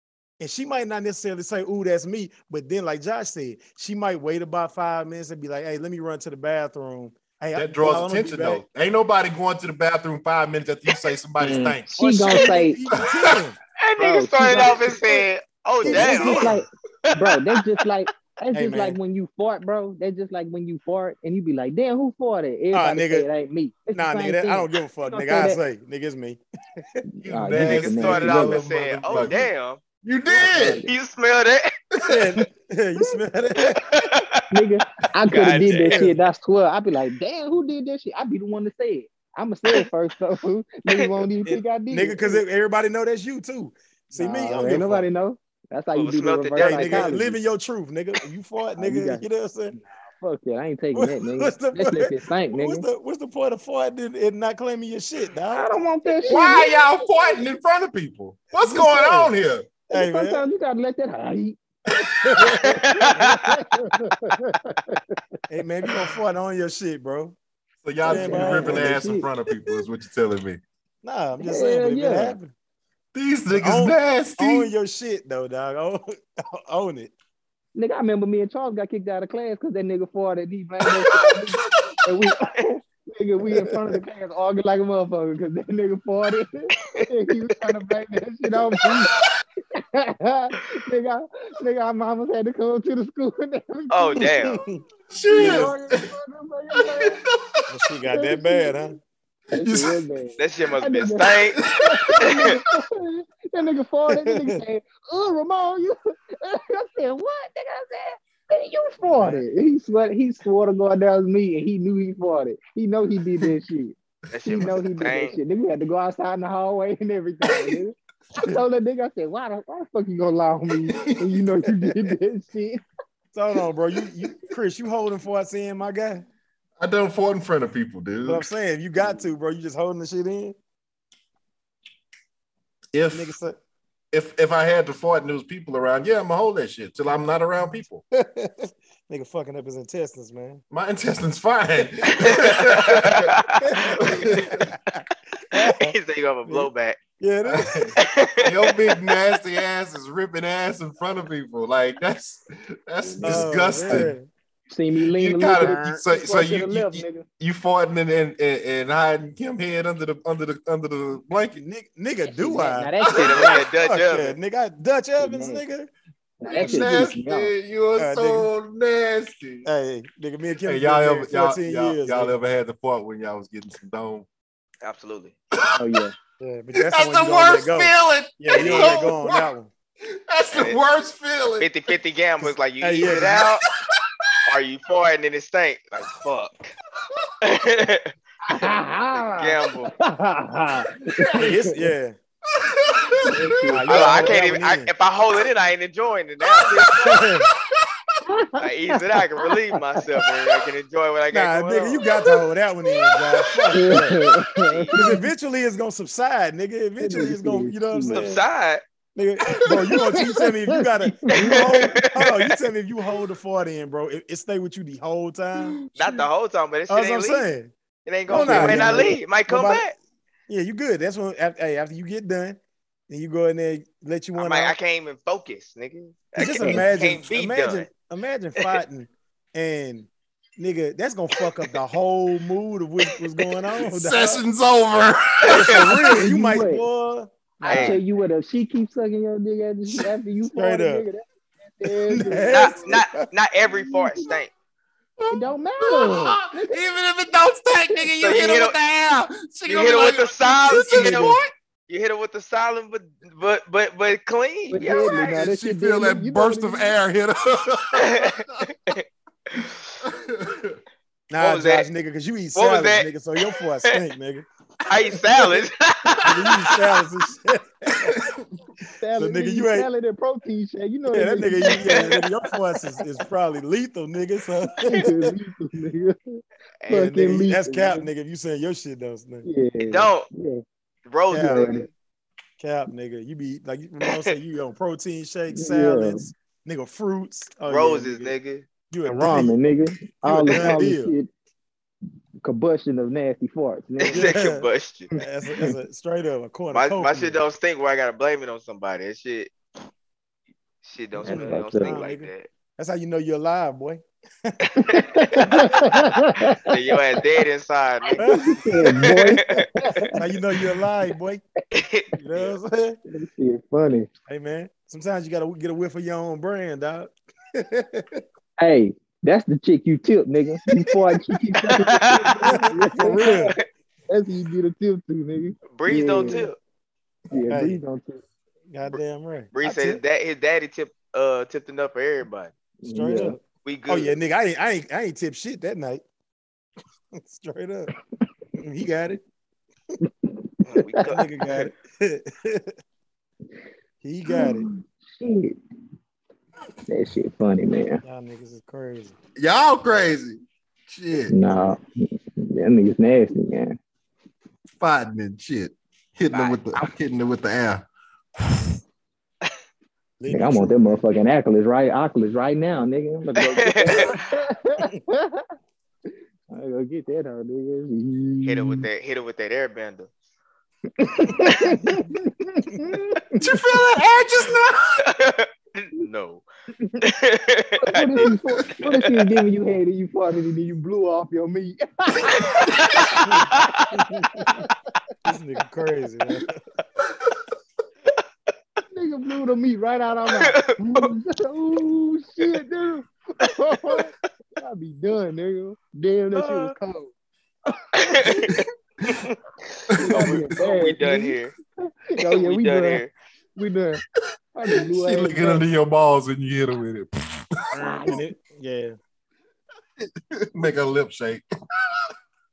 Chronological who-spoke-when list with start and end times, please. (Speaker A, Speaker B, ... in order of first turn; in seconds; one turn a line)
Speaker A: 0.4-8.6
Speaker B: 7.5-12.0
Speaker C: 11.4-12.8
Speaker A: 12.0-13.6
Speaker D: 13.8-17.6
Speaker C: 14.0-15.2
Speaker A: 15.8-16.6
Speaker C: 15.8-25.6
Speaker A: 18.5-19.0
Speaker A: 22.7-23.3
Speaker A: 23.9-27.0
Speaker C: 27.1-28.6
Speaker B: 27.2-29.5
Speaker D: 27.5-31.7
Speaker B: 30.0-30.8
Speaker C: 30.4-30.9
Speaker A: 32.0-34.0
Speaker D: 33.6-34.5
Speaker C: 34.5-42.4
Speaker D: 35.3-36.0
Speaker A: 35.8-36.2
Speaker A: 41.5-45.1
Speaker C: 44.1-47.4
Speaker D: 46.0-47.1
Speaker A: 46.6-49.8
Speaker C: 48.8-52.9
Speaker A: 51.0-55.7
Speaker C: 55.5-56.8
Speaker B: 56.2-59.7
Speaker A: 58.5-59.3
Speaker A: 59.9-60.5
Speaker C: 59.9-61.6
Speaker B: 62.0-62.6
Speaker A: 62.2-63.2
Speaker D: 62.6-63.5
Speaker C: 62.8-65.2
Speaker A: 65.5-67.4
Speaker B: 67.8-70.6
Speaker C: 68.0-69.3
Speaker A: 68.0-69.0
Speaker A: 71.0-72.5
Speaker C: 71.4-72.4
Speaker B: 73.1-74.7
Speaker A: 73.5-77.1
Speaker C: 77.8-89.1
Speaker B: 81.1-81.4
Speaker C: 89.8-94.3
Speaker D: 93.9-94.6
Speaker A: 94.2-94.8
Speaker B: 95.1-96.1
Speaker C: 95.3-97.2
Speaker A: 95.4-95.7
Speaker B: 96.8-97.6
Speaker A: 97.7-99.0
Speaker C: 98.1-99.0
Speaker C: 99.5-122.8
Speaker B: 99.5-100.0
Speaker D: 100.4-101.6
Speaker B: 101.6-102.6
Speaker D: 102.2-102.6
Speaker A: 104.1-104.6
Speaker A: 109.1-109.4
Speaker D: 114.3-115.4
Speaker B: 120.9-121.4
Speaker A: 123.3-126.3
Speaker B: 126.8-128.5
Speaker A: 128.2-130.6
Speaker B: 132.9-133.3
Speaker A: 133.1-133.6
Speaker B: 134.1-138.0
Speaker A: 138.1-140.6
Speaker B: 140.7-144.8
Speaker D: 142.2-143.9
Speaker A: 143.6-145.9
Speaker D: 145.5-147.0
Speaker A: 146.5-147.9
Speaker B: 147.4-154.1
Speaker D: 148.0-149.1
Speaker C: 153.0-154.1
Speaker A: 153.2-154.3
Speaker C: 154.7-157.3
Speaker B: 155.1-161.6
Speaker A: 155.6-156.0
Speaker A: 161.6-165.9
Speaker C: 162.3-163.6
Speaker B: 163.0-163.5
Speaker D: 163.1-164.4
Speaker C: 165.2-165.6
Speaker C: 166.4-167.5
Speaker B: 166.5-169.7
Speaker A: 166.5-166.9
Speaker A: 168.0-168.5
Speaker A: 169.6-172.3
Speaker B: 170.6-174.3
Speaker D: 174.8-175.3
Speaker B: 175.5-176.0
Speaker C: 175.7-176.1
Speaker A: 176.4-179.7
Speaker B: 176.8-179.5
Speaker D: 178.5-179.1
Speaker B: 180.1-181.7
Speaker D: 180.5-180.8
Speaker D: 181.6-183.6
Speaker A: 182.8-183.4
Speaker B: 183.9-184.3
Speaker D: 184.5-186.7
Speaker D: 187.4-188.1
Speaker C: 188.4-191.9
Speaker D: 189.2-189.9
Speaker B: 191.1-191.6
Speaker A: 191.3-192.2
Speaker B: 192.6-193.8
Speaker C: 193.3-194.2
Speaker A: 193.7-194.9
Speaker D: 193.9-197.3
Speaker B: 196.4-198.0
Speaker A: 197.0-197.5
Speaker C: 198.3-199.2
Speaker D: 198.6-202.1
Speaker A: 201.3-204.2
Speaker D: 203.4-203.9
Speaker C: 203.7-205.2
Speaker D: 204.6-205.0
Speaker A: 204.9-208.4
Speaker C: 207.0-208.3
Speaker D: 208.1-208.8
Speaker A: 209.1-215.8
Speaker C: 210.1-212.0
Speaker D: 211.4-212.6
Speaker D: 215.9-217.5
Speaker A: 216.9-217.7
Speaker D: 218.1-219.9
Speaker A: 218.3-219.8
Speaker C: 218.4-219.1
Speaker A: 220.5-224.8
Speaker D: 224.3-227.9
Speaker A: 226.4-234.4
Speaker B: 233.8-235.8
Speaker D: 235.4-235.9
Speaker A: 235.5-238.0
Speaker C: 236.0-236.9
Speaker C: 237.6-242.8
Speaker D: 237.7-238.0
Speaker A: 240.6-241.1
Speaker A: 242.1-243.3
Speaker D: 242.5-244.5
Speaker B: 243.6-244.4
Speaker B: 245.2-251.5
Speaker C: 245.3-246.8
Speaker D: 248.2-248.8
Speaker D: 249.7-255.4
Speaker A: 250.7-251.4
Speaker C: 254.7-256.9
Speaker B: 255.1-258.7
Speaker D: 257.9-259.9
Speaker B: 260.0-260.8
Speaker A: 261.3-264.4
Speaker D: 261.4-261.9
Speaker D: 262.5-264.0
Speaker D: 264.9-266.8
Speaker A: 265.3-265.6
Speaker A: 266.2-268.2
Speaker B: 268.0-268.4
Speaker C: 269.0-272.1
Speaker A: 269.2-269.9
Speaker A: 271.1-275.4
Speaker D: 271.7-272.2
Speaker C: 274.8-278.1
Speaker D: 276.8-277.2
Speaker A: 276.9-279.4
Speaker C: 279.4-280.6
Speaker D: 279.8-280.3
Speaker D: 281.1-281.9
Speaker A: 281.3-281.6
Speaker C: 281.4-281.9
Speaker A: 282.6-288.4
Speaker D: 284.0-284.3
Speaker C: 285.5-286.3
Speaker D: 287.7-288.7
Speaker A: 288.9-289.6
Speaker C: 289.1-291.3
Speaker A: 290.2-291.1
Speaker C: 292.4-294.3
Speaker D: 294.0-295.1
Speaker A: 294.1-297.4
Speaker D: 296.7-299.5
Speaker D: 300.8-302.5
Speaker A: 301.2-304.8
Speaker C: 301.2-302.0
Speaker D: 304.7-306.0
Speaker C: 304.8-306.7
Speaker D: 306.6-309.7
Speaker A: 308.2-309.4
Speaker C: 308.2-310.2
Speaker A: 310.1-311.4
Speaker D: 311.7-312.6
Speaker A: 312.2-313.0
Speaker C: 313.1-314.1
Speaker A: 314.3-318.2
Speaker C: 318.6-323.6
Speaker D: 321.7-322.6
Speaker A: 322.4-323.6
Speaker D: 323.2-323.6
Speaker C: 324.1-326.5
Speaker D: 325.7-326.6
Speaker C: 327.3-328.2
Speaker A: 327.5-327.8
Speaker A: 328.7-330.0
Speaker D: 329.5-332.5
Speaker C: 332.8-333.4
Speaker A: 332.9-336.0
Speaker D: 333.6-334.1
Speaker A: 337.1-337.9
Speaker A: 338.6-339.2
Speaker C: 340.0-341.0
Speaker D: 340.7-341.7
Speaker A: 341.1-342.7
Speaker A: 344.0-344.7
Speaker C: 344.3-345.6
Speaker C: 346.9-348.0
Speaker A: 348.0-349.2
Speaker B: 349.4-351.3
Speaker C: 351.3-351.8
Speaker C: 352.4-353.8
Speaker B: 354.8-357.9
Speaker D: 356.3-356.6
Speaker B: 358.4-358.7
Speaker A: 360.2-361.0
Speaker C: 360.3-365.4
Speaker D: 363.4-364.1
Speaker C: 366.5-368.9
Speaker D: 368.4-370.1
Speaker C: 371.0-373.4
Speaker B: 373.4-375.0
Speaker D: 375.0-376.4
Speaker D: 377.0-379.4
Speaker C: 377.8-383.1
Speaker D: 382.4-383.9
Speaker B: 382.6-383.2
Speaker A: 383.2-384.6
Speaker C: 383.8-384.7
Speaker A: 385.2-386.6
Speaker C: 388.9-397.1
Speaker D: 390.3-391.1
Speaker A: 396.4-396.7
Speaker D: 397.9-401.5
Speaker B: 398.4-399.1
Speaker B: 399.9-400.4
Speaker C: 400.0-403.0
Speaker D: 402.2-403.1
Speaker C: 403.6-404.0
Speaker C: 404.6-405.6
Speaker B: 404.7-408.2
Speaker C: 407.7-408.2
Speaker A: 407.8-408.9
Speaker B: 410.3-412.1